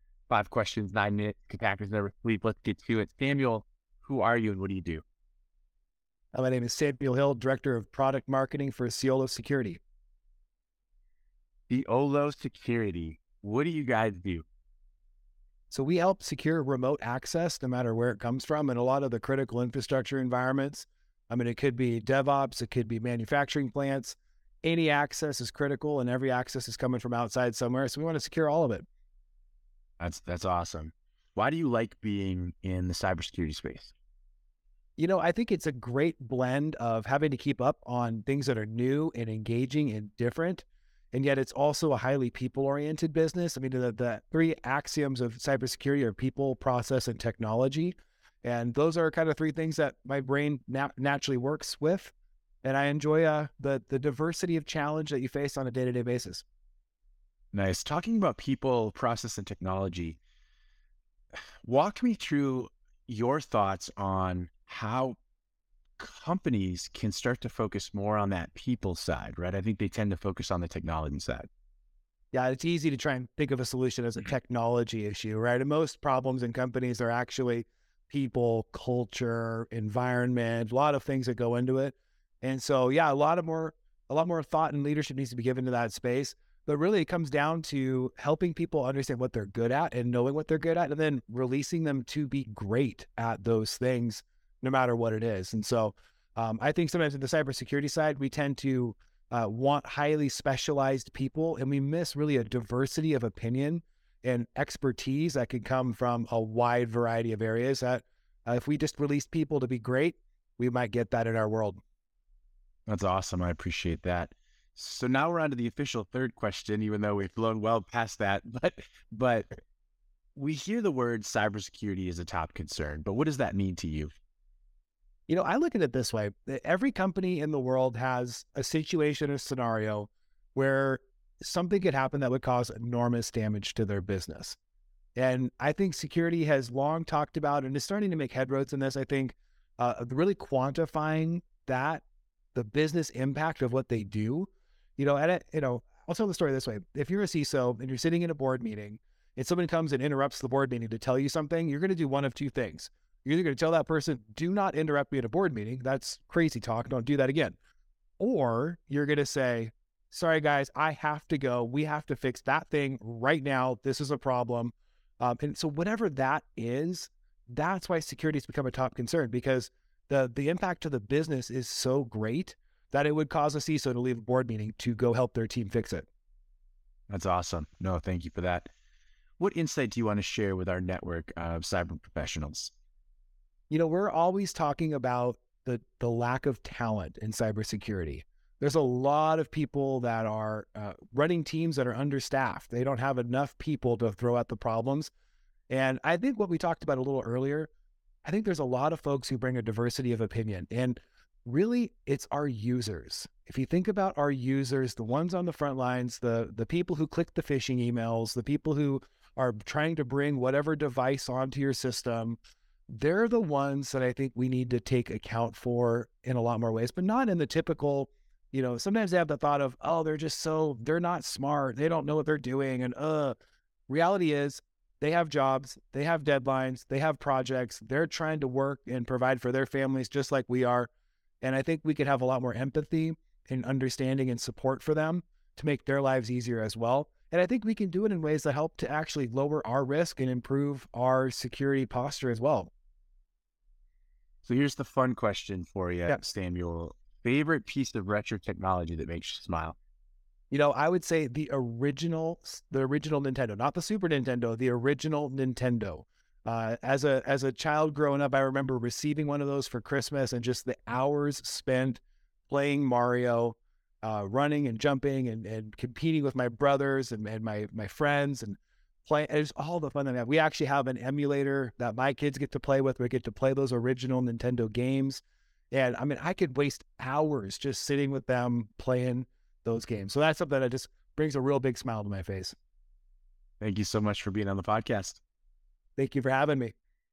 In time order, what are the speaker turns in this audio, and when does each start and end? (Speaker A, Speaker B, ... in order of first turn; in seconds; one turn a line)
Speaker A: 0.3-5.0
Speaker B: 6.3-9.8
Speaker A: 11.7-14.4
Speaker B: 15.7-28.9
Speaker A: 30.0-33.9
Speaker B: 35.0-56.4
Speaker A: 57.5-60.2
Speaker A: 61.6-65.2
Speaker A: 66.0-71.5
Speaker B: 72.3-111.8
Speaker A: 112.9-119.6
Speaker A: 120.3-124.1
Speaker B: 125.3-134.6
Speaker B: 135.1-142.0
Speaker B: 142.5-157.6
Speaker B: 158.2-176.1
Speaker A: 177.1-178.7
Speaker A: 179.4-182.7
Speaker B: 183.7-195.1
Speaker B: 195.7-197.7
Speaker B: 198.2-212.4
Speaker B: 212.9-223.3
Speaker B: 223.9-230.9
Speaker B: 231.4-242.7
Speaker A: 244.4-249.8
Speaker B: 250.5-282.5
Speaker A: 283.6-285.2
Speaker B: 286.0-286.7